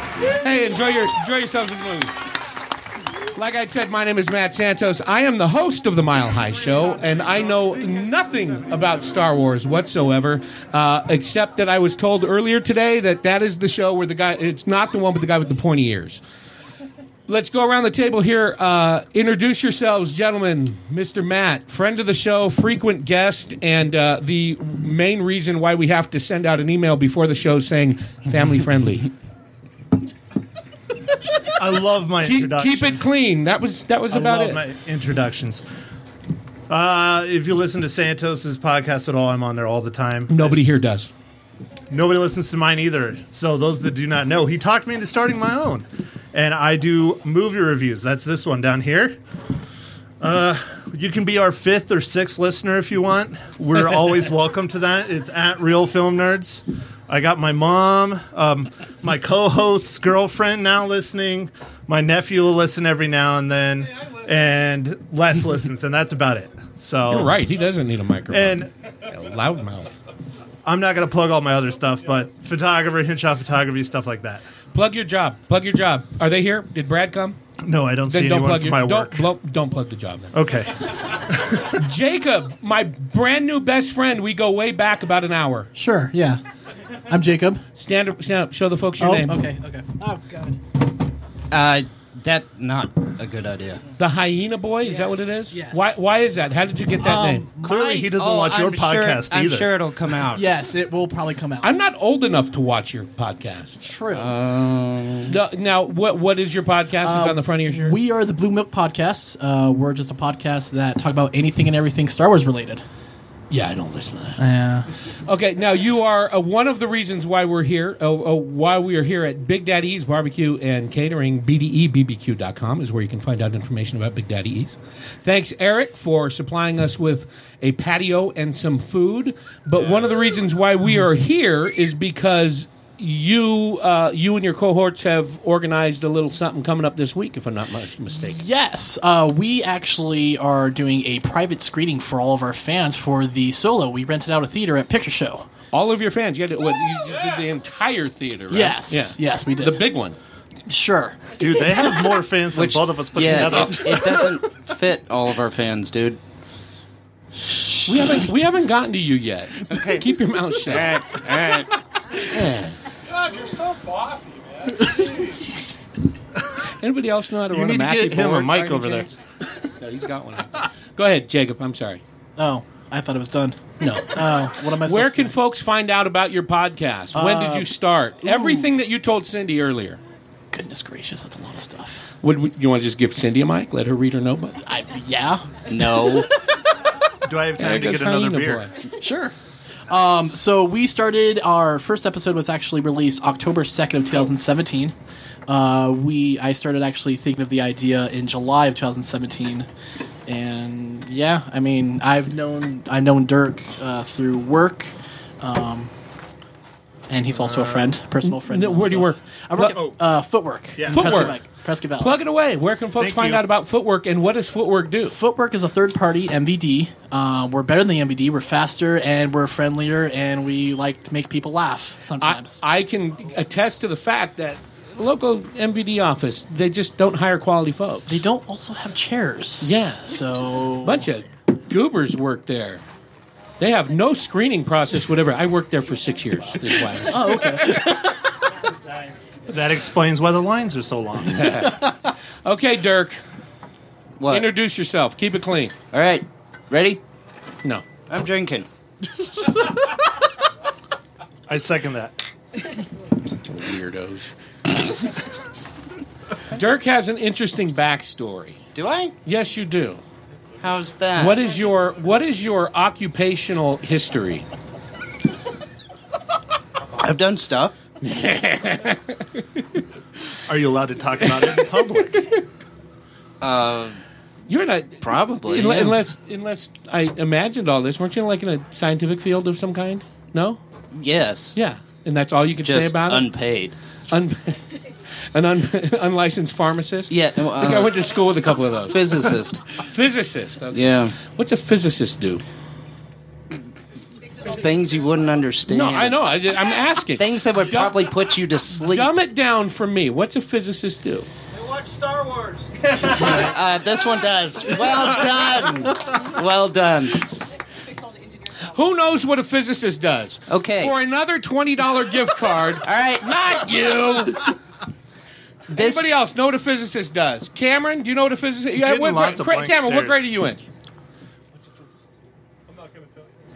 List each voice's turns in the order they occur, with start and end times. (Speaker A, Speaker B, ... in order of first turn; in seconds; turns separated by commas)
Speaker A: 0.4-2.1, Speaker A: 3.4-16.2, Speaker A: 17.3-29.1, Speaker B: 31.6-33.2, Speaker A: 32.2-34.6, Speaker B: 34.1-35.6, Speaker B: 36.7-40.8, Speaker A: 40.3-41.1, Speaker B: 41.9-49.2, Speaker B: 50.2-67.4, Speaker A: 67.1-69.9, Speaker B: 68.3-68.7, Speaker B: 70.7-74.5, Speaker A: 74.7-77.4, Speaker B: 77.6-79.3, Speaker A: 78.1-80.3, Speaker B: 80.3-81.8, Speaker A: 81.7-85.7, Speaker C: 85.8-86.4, Speaker C: 87.1-87.6, Speaker A: 87.8-89.5, Speaker C: 89.0-90.6, Speaker D: 91.5-93.8, Speaker A: 94.0-97.5, Speaker C: 94.8-96.0, Speaker C: 97.0-97.9, Speaker B: 97.6-99.7, Speaker D: 97.6-100.5, Speaker C: 100.3-101.7, Speaker A: 101.6-103.9, Speaker C: 103.8-104.3, Speaker D: 104.2-105.4, Speaker A: 105.3-108.0, Speaker C: 107.0-112.8, Speaker A: 113.5-114.4, Speaker C: 114.4-114.9, Speaker A: 115.3-138.4, Speaker C: 138.1-145.5, Speaker A: 145.7-150.2, Speaker C: 148.5-149.9, Speaker C: 150.7-151.4, Speaker B: 151.4-154.3, Speaker D: 152.5-156.2, Speaker A: 157.9-161.0, Speaker D: 159.7-160.1, Speaker D: 160.7-161.7, Speaker A: 162.3-162.8, Speaker E: 163.1-165.0, Speaker A: 166.8-169.1, Speaker B: 167.5-169.1, Speaker A: 169.8-172.0, Speaker C: 172.4-175.3, Speaker A: 173.8-174.2, Speaker A: 174.8-180.0, Speaker C: 177.1-178.7, Speaker C: 180.5-182.0, Speaker A: 182.2-184.6, Speaker C: 184.7-186.2, Speaker D: 185.7-186.3, Speaker B: 187.2-188.7, Speaker A: 187.6-188.7, Speaker C: 189.0-189.3, Speaker C: 189.9-194.9, Speaker C: 195.5-199.7, Speaker C: 200.3-205.9, Speaker C: 207.1-212.2, Speaker B: 207.4-207.9, Speaker A: 208.2-209.8, Speaker B: 210.8-211.3, Speaker A: 210.9-211.4, Speaker A: 212.0-215.2, Speaker B: 213.0-213.4, Speaker C: 215.1-222.6, Speaker A: 222.2-228.2, Speaker C: 228.1-231.1, Speaker A: 229.6-230.0, Speaker A: 230.8-232.8, Speaker A: 233.6-238.0, Speaker C: 237.1-238.1, Speaker B: 239.5-241.5, Speaker A: 241.3-243.2, Speaker D: 244.2-244.5, Speaker A: 244.3-245.7, Speaker D: 245.9-247.0, Speaker D: 248.1-248.7, Speaker B: 251.5-252.2, Speaker A: 253.5-254.3, Speaker A: 256.5-258.6, Speaker D: 258.8-259.1, Speaker A: 259.2-260.0, Speaker D: 260.6-261.4, Speaker A: 261.2-264.5, Speaker D: 267.0-267.8, Speaker A: 268.0-269.2, Speaker B: 270.5-272.4, Speaker D: 273.4-274.0, Speaker A: 274.5-280.6, Speaker D: 275.0-276.0, Speaker D: 280.9-281.6, Speaker A: 281.6-283.3, Speaker D: 282.6-283.8, Speaker A: 284.1-284.7, Speaker A: 285.3-289.0, Speaker D: 287.1-288.0, Speaker D: 288.9-289.6, Speaker A: 289.7-292.4, Speaker D: 290.7-291.2, Speaker D: 294.4-296.3, Speaker A: 295.7-298.1, Speaker D: 297.2-299.1, Speaker A: 298.7-301.3, Speaker E: 301.6-303.2, Speaker D: 303.1-307.2, Speaker A: 308.7-314.5, Speaker D: 310.5-310.9, Speaker D: 312.8-313.3, Speaker A: 315.7-320.6, Speaker D: 315.7-316.1, Speaker B: 318.8-320.3, Speaker E: 322.7-323.3